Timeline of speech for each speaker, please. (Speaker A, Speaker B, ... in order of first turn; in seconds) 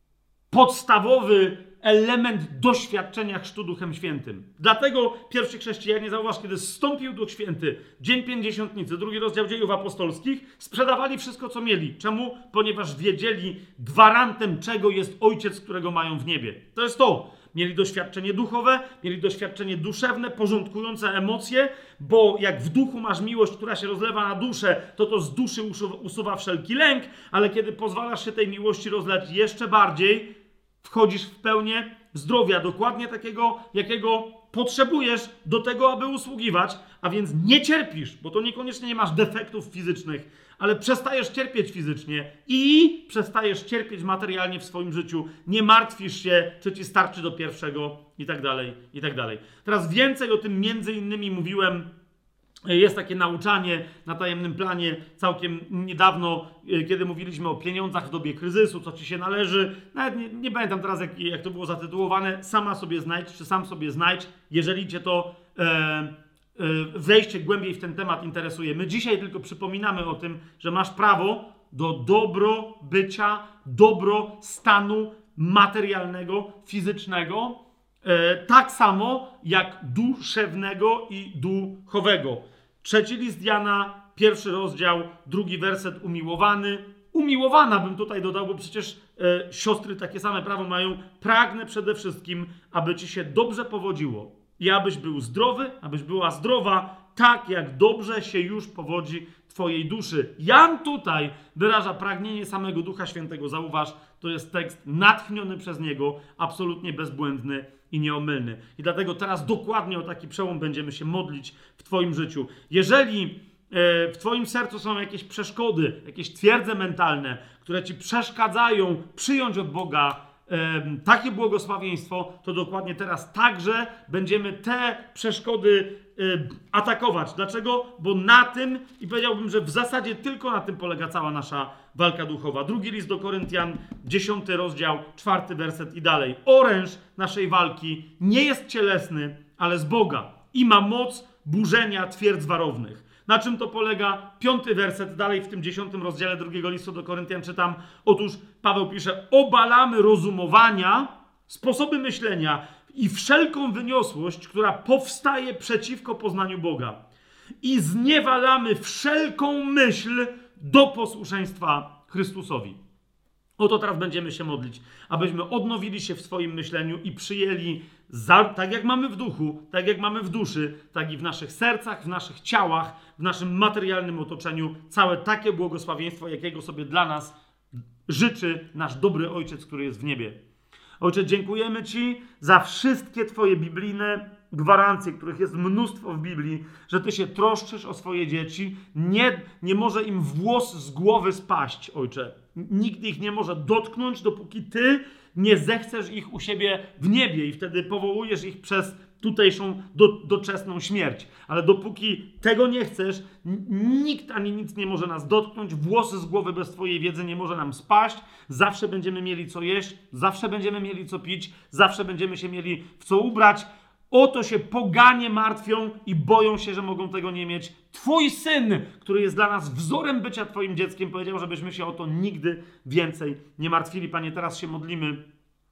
Speaker A: 0.5-30.3, 30.8-51.9, 52.7-157.0, 157.6-162.8, 163.6-177.3, 178.1-180.4, 181.0-225.2